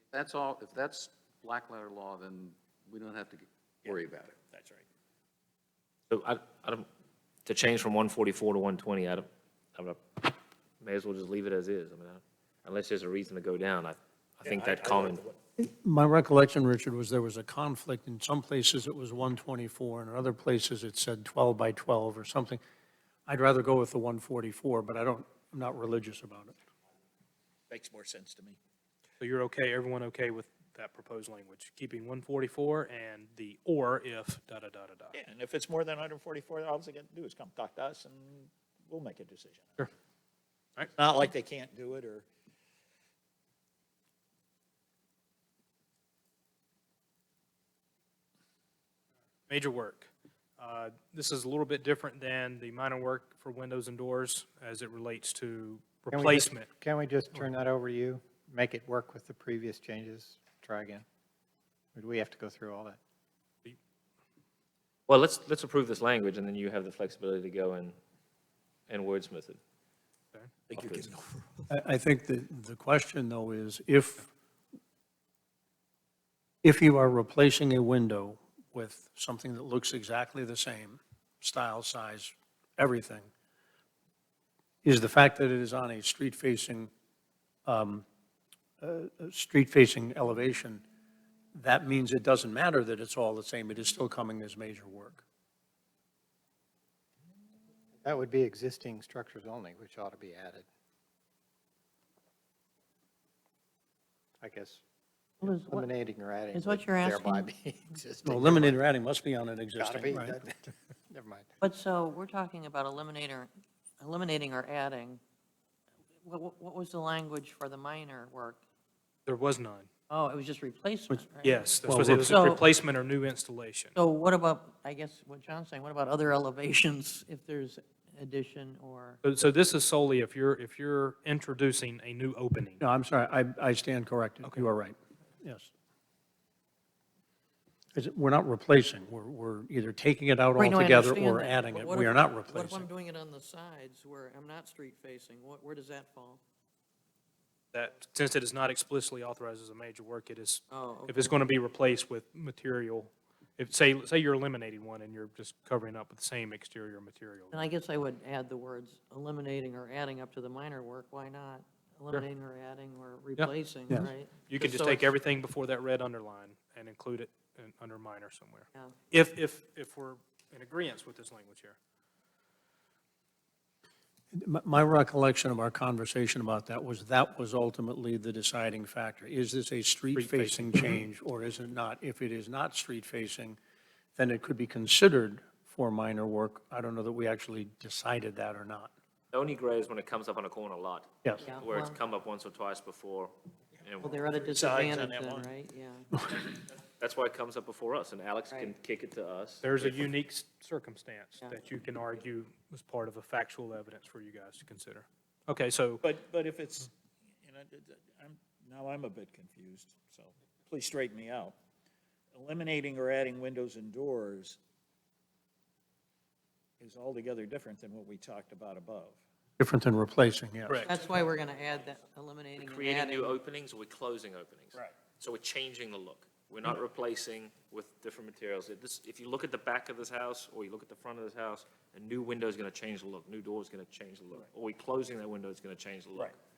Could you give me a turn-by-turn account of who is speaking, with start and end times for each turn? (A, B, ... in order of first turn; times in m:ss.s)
0:00.1-0:01.5 A
0:02.2-0:02.5 A
0:03.8-0:04.8 B
0:03.8-0:04.3 A
0:06.1-0:06.9 C
0:07.4-0:15.2 C
0:14.4-0:15.4 B
0:15.6-0:22.6 D
0:23.3-0:26.5 D
0:27.7-0:28.6 B
0:29.2-0:35.2 E
0:35.1-0:39.9 B
0:40.9-0:42.3 B
0:49.5-0:56.7 E
0:56.1-1:01.0 F
1:02.0-1:03.0 F
1:05.1-1:08.0 C
1:08.9-1:09.6 C
1:10.7-1:11.6 B
1:10.7-1:11.1 C
1:11.7-1:14.3 D
1:16.6-1:23.3 D
1:24.8-1:26.9 D
1:27.7-1:28.0 D
1:28.8-1:30.8 D
1:31.5-1:35.2 D
1:38.0-1:40.6 F
1:44.4-1:44.8 F
1:45.4-1:45.9 G
1:45.4-1:48.8 F
1:46.5-1:47.5 G
1:48.2-1:50.4 D
1:49.8-1:51.5 F
1:51.6-1:55.2 G
1:56.2-1:58.6 G
1:59.2-1:59.9 E
2:00.1-2:02.6 G
2:01.4-2:03.9 E
2:01.8-2:02.4 D
2:03.9-2:09.2 G
2:09.2-2:12.8 E
2:12.8-2:15.7 D
2:17.9-2:22.8 D
2:20.6-2:26.4 G
2:27.7-2:37.6 E
2:30.7-2:31.5 G
2:37.5-2:45.0 G
2:43.4-2:51.8 E
2:54.3-3:03.6 D
3:00.2-3:01.0 E
3:04.2-3:08.9 D
3:09.3-3:14.3 C
3:11.4-3:12.0 G
3:14.0-3:16.1 G
3:14.3-3:15.5 B
3:16.4-3:20.1 C
3:18.5-3:18.8 G
3:19.6-3:26.0 E
3:26.0-3:26.9 B
3:27.4-3:31.5 B
3:32.3-3:34.6 B
3:36.8-3:39.2 B
3:39.6-3:40.8 D
3:40.7-3:40.9 E
3:40.8-3:43.4 G
3:42.6-3:56.4 C